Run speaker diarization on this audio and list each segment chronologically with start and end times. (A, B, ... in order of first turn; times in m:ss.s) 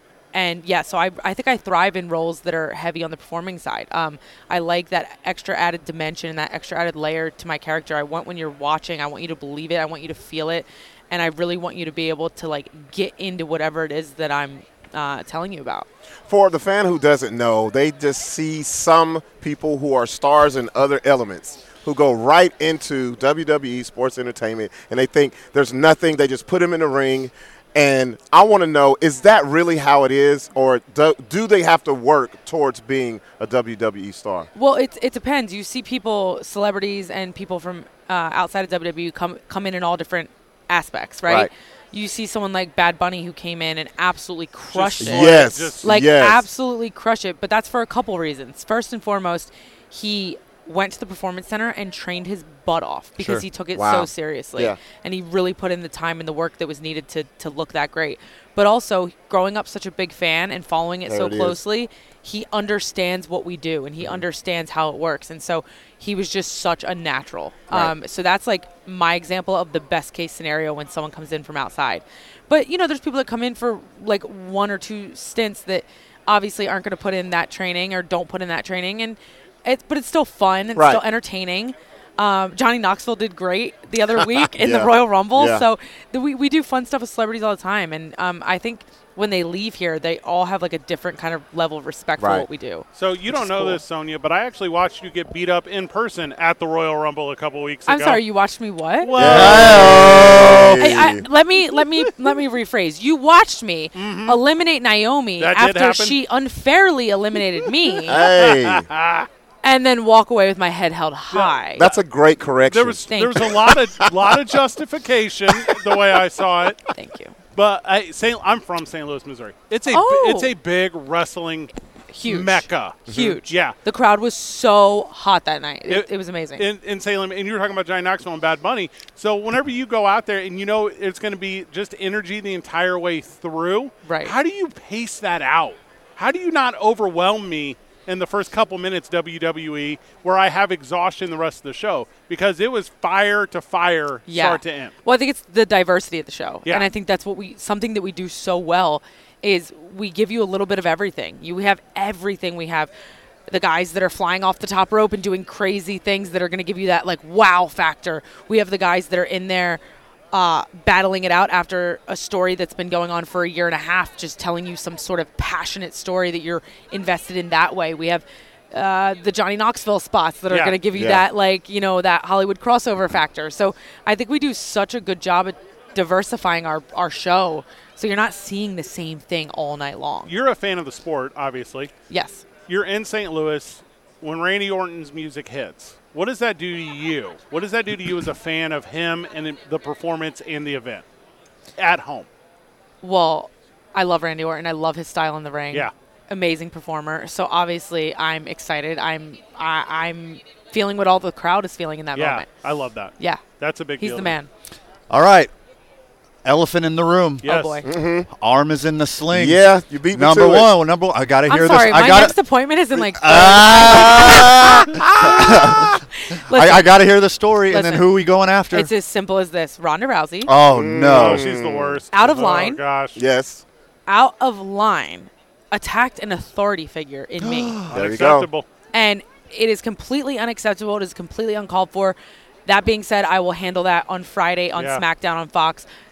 0:00.3-0:15.9 A
0:16.3-0:34.5 B
0:34.5-1:33.8 A
0:44.7-0:45.8 C
0:45.0-0:46.4 B
0:53.7-0:54.8 B
1:01.1-1:01.6 B
1:20.8-1:21.0 B
1:24.6-1:25.6 B
1:32.2-1:32.4 B
1:33.0-1:38.2 C
1:37.9-1:48.3 A
1:39.0-1:40.7 C
1:39.2-1:40.9 D
1:39.2-1:41.2 B
1:43.9-1:44.4 C
1:45.4-1:46.2 C
1:48.0-1:48.9 B
1:48.2-1:49.3 C
1:49.6-1:51.9 A
1:51.3-1:51.9 C
1:51.8-1:53.9 B
1:52.6-1:56.8 C
1:53.1-1:53.5 A
1:56.9-1:57.3 A
1:57.5-2:01.7 C
1:59.9-2:00.5 A
2:02.1-2:06.6 A
2:02.2-2:03.7 C
2:05.9-2:24.9 C
2:14.0-2:14.3 A
2:24.3-2:32.9 A
2:33.5-3:00.3 A
2:50.5-2:50.8 C
2:50.9-2:51.2 B
3:00.2-3:01.9 C
3:02.1-3:02.4 A
3:02.7-3:11.0 C
3:11.8-3:12.3 C
3:13.0-3:22.5 A
3:22.1-3:24.3 C
3:24.0-3:24.5 A
3:25.1-3:25.5 D
3:26.4-3:27.5 D
3:27.4-3:27.9 A
3:27.4-3:27.8 C
3:27.8-3:28.3 B
3:28.3-3:32.4 D
3:29.3-3:30.7 B
3:31.5-3:36.9 A
3:32.9-3:38.9 D
3:37.7-3:38.1 A
3:38.7-3:40.5 A
3:40.4-3:41.5 D
3:40.7-3:42.0 B
3:41.1-3:43.2 C
3:42.1-3:42.8 A
3:43.1-3:43.6 B
3:44.1-3:47.8 A
3:47.4-3:48.0 D
3:47.9-3:48.5 B
3:47.9-3:48.7 C
3:48.9-3:55.9 A
3:54.7-3:55.0 C